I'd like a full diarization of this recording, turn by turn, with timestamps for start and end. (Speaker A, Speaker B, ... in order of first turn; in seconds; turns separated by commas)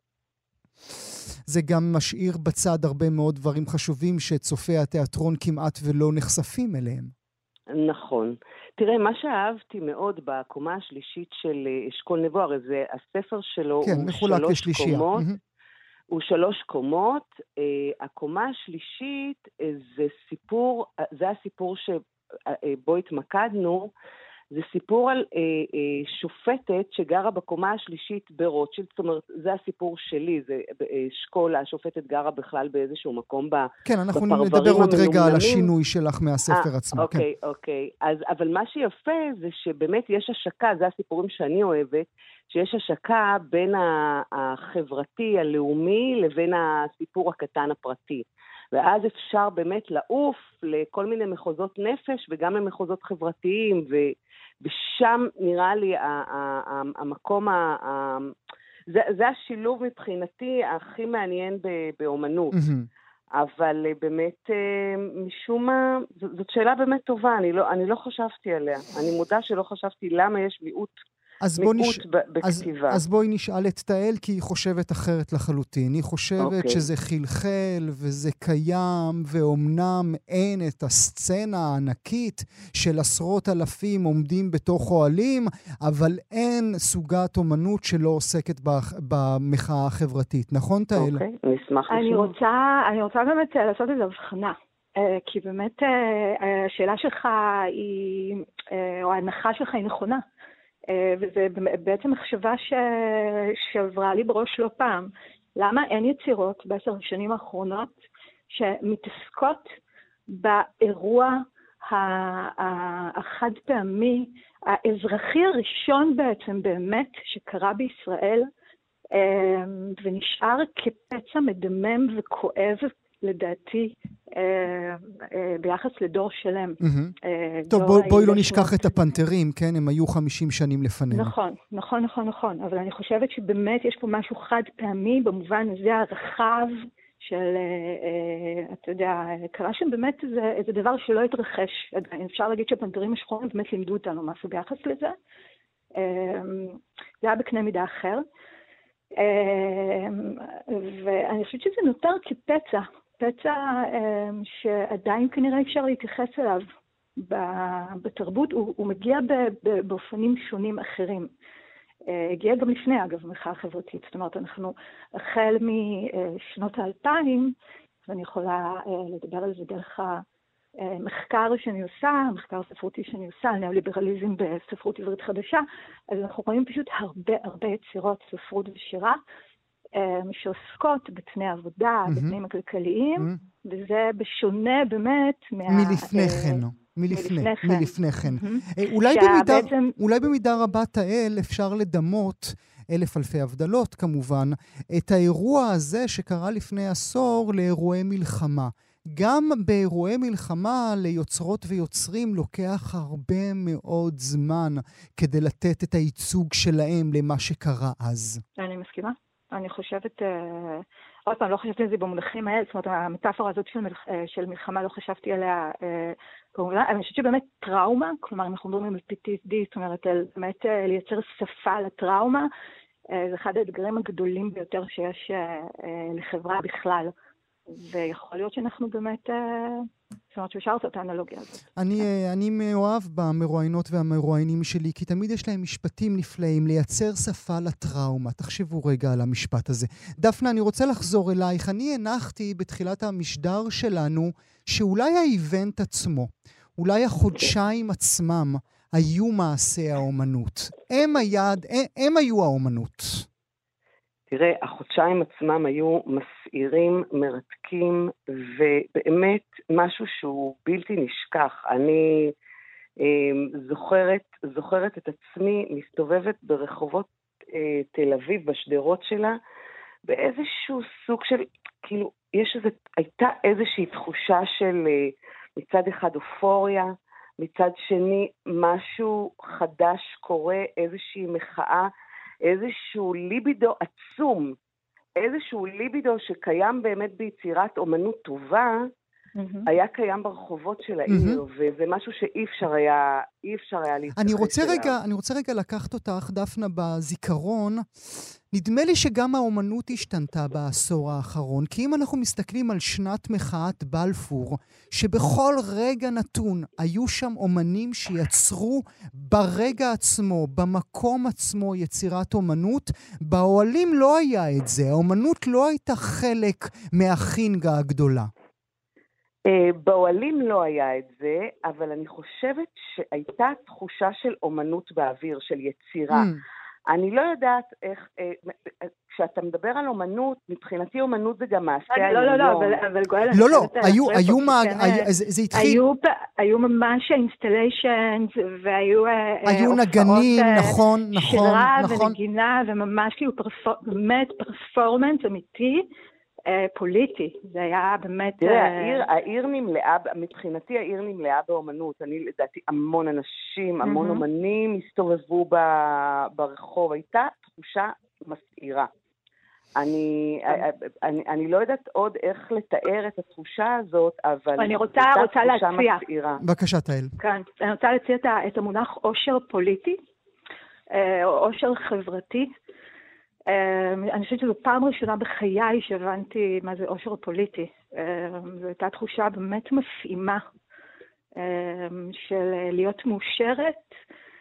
Speaker A: 1.5-7.1, Speaker B: 7.7-15.3, Speaker A: 13.8-15.4, Speaker B: 16.1-23.9, Speaker B: 24.5-35.7, Speaker A: 33.9-37.2, Speaker B: 36.5-58.3, Speaker B: 58.9-62.6, Speaker A: 62.5-62.9, Speaker B: 63.4-71.0, Speaker A: 71.4-91.2, Speaker B: 71.6-73.0, Speaker B: 76.4-76.9, Speaker B: 91.0-92.3, Speaker C: 91.9-100.2, Speaker C: 100.9-107.9, Speaker C: 108.5-109.7, Speaker C: 110.3-118.5, Speaker C: 119.1-128.9, Speaker A: 126.8-127.2, Speaker A: 127.7-131.4, Speaker C: 131.1-145.2, Speaker C: 146.0-148.2, Speaker C: 149.2-156.7, Speaker C: 157.2-161.3, Speaker C: 162.1-167.6, Speaker C: 168.1-170.2, Speaker C: 170.8-179.2, Speaker C: 179.9-189.9, Speaker A: 182.1-182.4, Speaker A: 185.7-208.4, Speaker C: 208.6-222.5, Speaker C: 223.1-227.1, Speaker C: 227.7-231.7, Speaker A: 231.8-253.3, Speaker B: 254.3-262.3, Speaker B: 263.0-269.4, Speaker B: 270.1-281.9, Speaker B: 282.4-284.6, Speaker B: 285.2-288.8, Speaker C: 289.4-289.7, Speaker B: 289.7-295.0, Speaker A: 291.1-291.4, Speaker A: 294.2-297.9, Speaker A: 298.5-318.3, Speaker B: 319.5-326.3, Speaker A: 326.1-326.4, Speaker B: 326.9-332.8, Speaker C: 331.9-345.9, Speaker A: 333.3-335.8, Speaker A: 339.5-342.2, Speaker C: 346.5-349.1, Speaker B: 348.4-358.9, Speaker C: 353.8-354.2, Speaker B: 359.8-366.4, Speaker C: 364.6-366.0, Speaker A: 366.4-367.1, Speaker C: 367.2-370.0, Speaker C: 370.9-372.5, Speaker C: 373.5-380.4, Speaker C: 381.4-383.9